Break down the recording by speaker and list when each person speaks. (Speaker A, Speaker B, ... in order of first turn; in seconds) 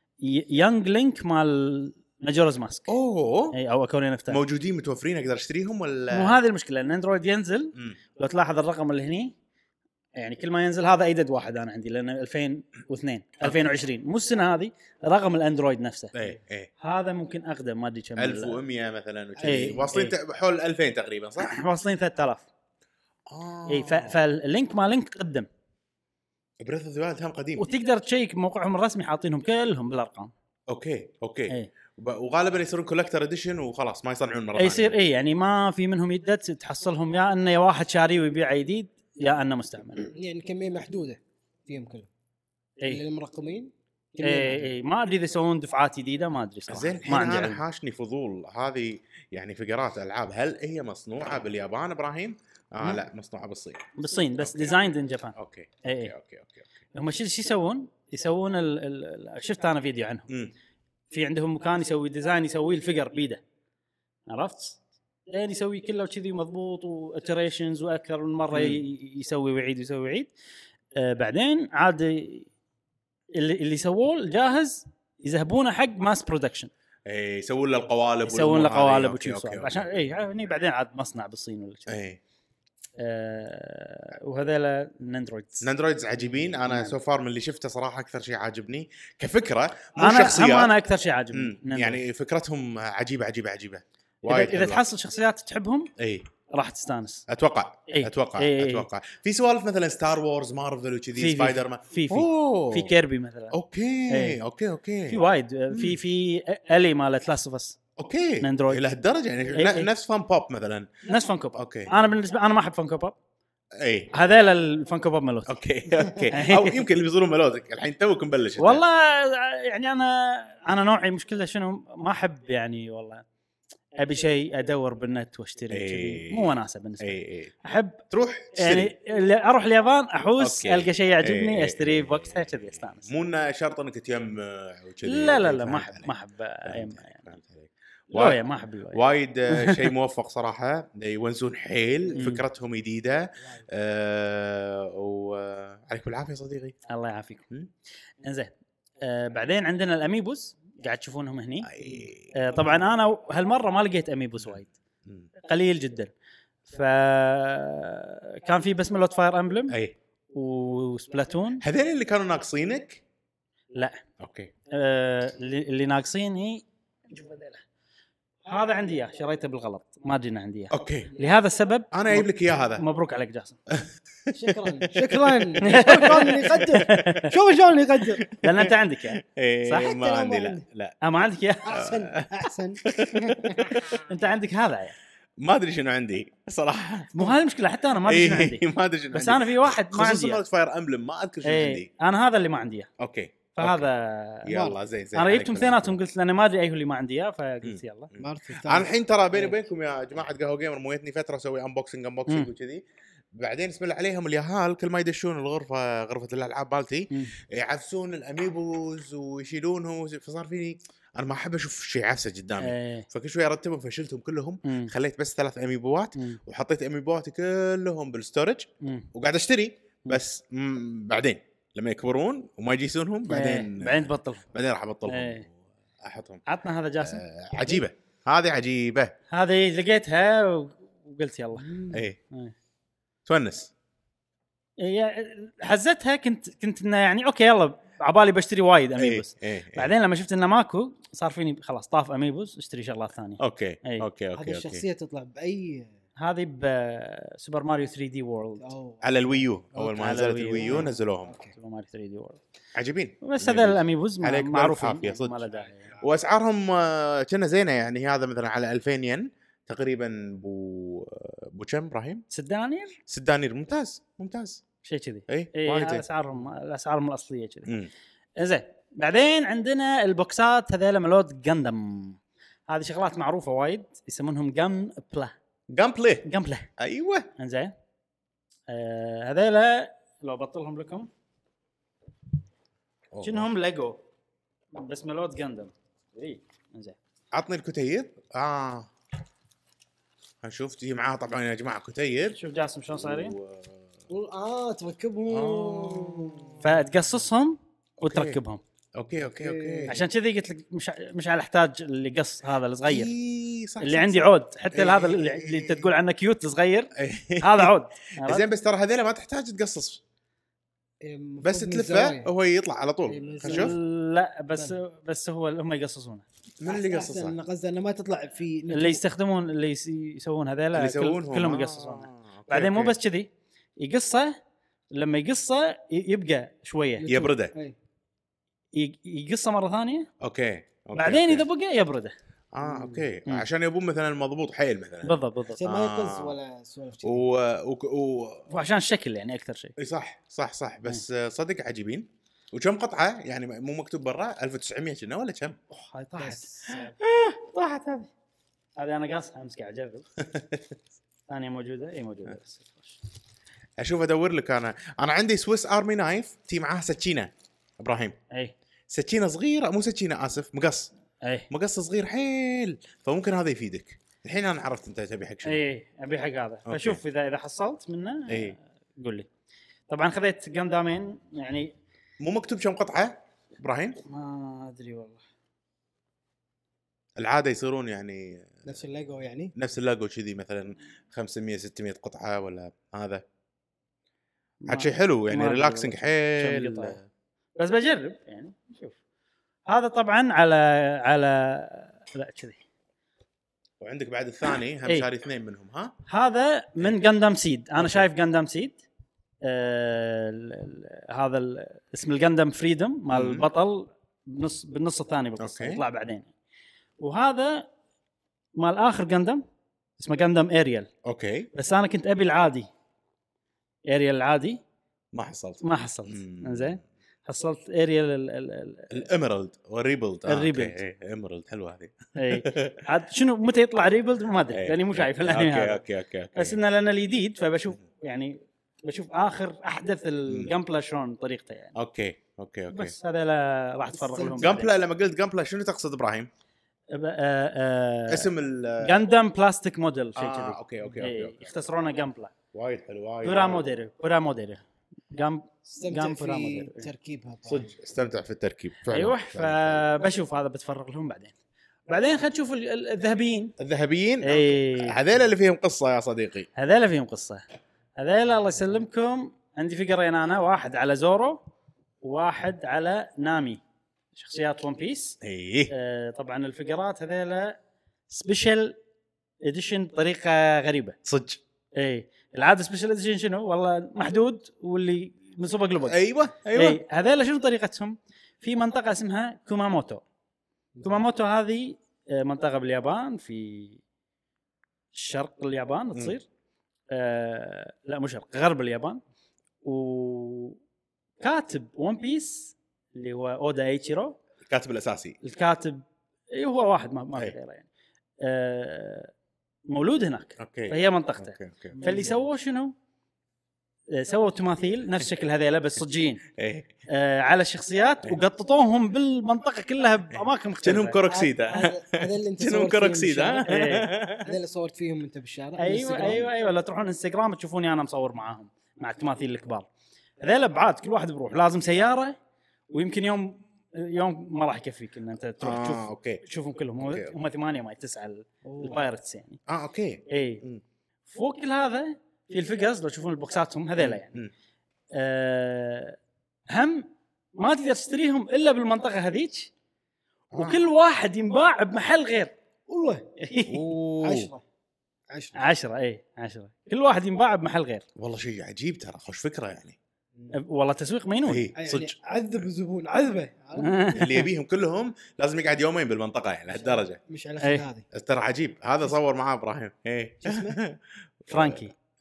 Speaker A: 0.2-2.9, 3.5-4.4, 6.1-9.3, 10.2-16.1, 16.8-18.6, 19.4-20.1, 21.4-22.5, 23.7-25.5, 27.6-30.3, 34.6-40.1, 44.2-47.6, 54.0-56.1, 56.9-60.3, 61.1-63.4, 64.3-70.3, 70.9-72.5, 73.3-76.7, 78.2-82.0, 83.0-85.7, 86.7-86.9, 90.0-92.0, 94.2-95.9, 96.5-97.2, 97.9-98.8, 101.2-103.5, 104.1-104.4, 105.1-107.8, 108.4-108.8, 109.5-109.9, 111.1-113.2, 114.1-115.5, 116.3-116.8, 118.6-123.2, 124.0-128.0, 128.6-133.1, 135.0-137.3, 138.1-139.9, 142.1-142.4, 146.9-147.5, 148.2-154.7, 155.4-156.1, 156.7-159.8, 160.3-161.6, 163.7-164.0, 164.7-167.6, 168.4-173.6, 175.6-177.3, 178.4-180.0, 181.0-181.9, 183.9-185.0, 187.1-190.4, 191.4-192.9, 193.5-194.5, 195.1-198.1, 207.1-207.3, 212.6-213.1, 214.6-214.9, 218.8-219.1, 223.3-224.5, 225.1-225.4, 226.5-227.2, 229.3-232.5, 234.8-244.0, 246.2-248.7, 249.9-250.9, 251.5-252.4, 253.2-255.9, 262.3-263.0, 264.8-267.7, 268.4-275.3, 276.2-276.7, 277.4-277.7, 278.7-281.1, 283.2-284.0, 284.7-287.0, 292.3-293.4, 296.6-298.6, 299.9-303.1, 303.8-308.4, 313.4-316.2, 318.7-324.4, 324.9-327.1, 328.7-330.1, 330.9-332.1, 335.0-335.6, 338.5-339.7, 345.7-348.1, 348.8-350.1, 351.3-353.0, 361.2-361.5, 365.4-369.3, 369.9-371.7, 374.0-375.2, 384.6-387.0, 387.6-388.9, 389.7-392.6, 396.1-398.8, 399.4-406.3, 407.0-407.7, 408.6-409.4, 410.0-410.9, 411.5-412.7, 413.9-414.6, 415.6-419.0, 420.3-420.8, 422.1-425.8, 426.3-431.7, 432.7-434.7, 436.9-438.3, 438.8-442.3, 443.2-446.9, 448.9-451.3, 451.9-453.5, 454.2-455.0, 456.6-457.4, 458.0-461.4, 462.0-463.6, 464.1-465.2, 465.7-467.6, 468.1-468.8, 469.4-471.0, 471.8-476.0, 476.5-480.0, 480.8-483.8, 484.9-486.2, 486.9-489.0, 489.6-490.6, 491.2-494.2, 495.2-497.7, 498.2-499.1, 499.7-502.7, 503.9-506.2, 506.9-511.1, 513.4-513.9, 515.6-519.7, 520.2-522.1, 522.7-529.4, 530.1-530.4, 531.1-534.2, 534.9-536.0, 536.5-539.5, 540.3-542.3, 543.2-543.6, 545.4-547.8, 550.3-551.5, 553.6-554.3, 561.3-561.7
Speaker B: 2.9-3.6, 4.3-6.4, 16.1-16.7, 18.2-21.5, 23.3-24.2, 26.6-27.6, 30.7-34.9, 46.7-54.8, 55.3-56.6, 68.5-68.8, 77.0-79.9, 81.9-82.2, 85.6-90.7, 91.3-94.8, 96.0-96.3, 97.3-102.9, 103.5-106.0, 108.0-110.9, 111.5-111.9, 113.8-114.1, 115.5-118.8, 125.7-127.5, 128.1-128.9, 130.4-136.1, 136.7-138.4, 138.9-146.8, 151.6-152.3, 154.4-155.3, 159.7-159.9, 161.6-163.0, 164.2-164.5, 170.7-171.1, 171.9-172.8, 173.7-177.1, 178.2-180.9, 181.7-184.0, 185.4-187.3, 188.0-191.9, 193.0-193.9, 194.4-196.0, 197.6-202.8, 203.3-226.4, 227.0-229.1, 231.9-232.2, 233.2-233.7, 239.0-239.9, 243.4-244.8, 249.0-251.3, 252.7-262.2, 263.1-264.6, 265.3-266.0, 275.7-276.3, 276.8-277.3, 283.1-283.5, 287.3-288.9, 290.4-292.4, 292.9-293.9, 295.3-296.7, 298.0-298.4, 299.0-300.0, 302.9-305.9, 306.9-310.0, 311.4-313.8, 316.6-317.3, 320.7-322.9, 327.1-327.5, 330.2-331.4, 332.5-336.4, 337.0-338.5, 339.8-345.6, 350.2-350.6, 353.8-358.2, 358.9-360.9, 361.5-365.6, 366.7-367.0, 368.3-368.6, 372.2-374.0, 377.2-378.6, 379.6-383.2, 384.7-387.0, 393.8-395.9, 397.8-398.1, 403.1-403.4, 405.4-405.8, 411.0-411.5, 415.1-416.8, 418.9-422.8, 424.5-426.6, 431.7-432.9, 434.4-436.3, 438.1-439.0, 440.1-441.5, 442.5-443.6, 447.5-449.8, 453.6-456.5, 465.2-465.7, 471.0-471.4, 475.8-476.8, 494.5-495.2, 500.4-502.1, 506.3-506.7, 510.1-514.3, 525.4-526.2, 526.8-527.1, 529.5-530.6, 533.8-534.3, 540.3-540.6, 543.5-544.3, 548.0-549.8, 551.2-551.9, 553.9-557.0, 557.9-561.6
Speaker C: 19.4-19.8, 40.1-42.1, 42.9-44.7, 174.3-178.3, 179.8-180.6, 181.7-183.8, 194.5-194.8, 198.2-198.9, 231.6-232.0, 244.3-245.9, 248.6-251.5, 294.1-296.6, 299.2-300.0, 311.0-312.3, 313.1-313.8, 316.6-319.0, 327.0-327.8, 332.6-333.0, 335.6-337.2, 346.2-346.9, 378.6-379.5, 434.1-434.5, 445.6-447.7, 480.7-481.0, 511.1-513.6, 514.2-516.2, 528.4-528.8, 542.7-543.1, 544.0-544.4, 545.1-545.4, 551.5-553.9, 556.5-557.9, 560.2-560.6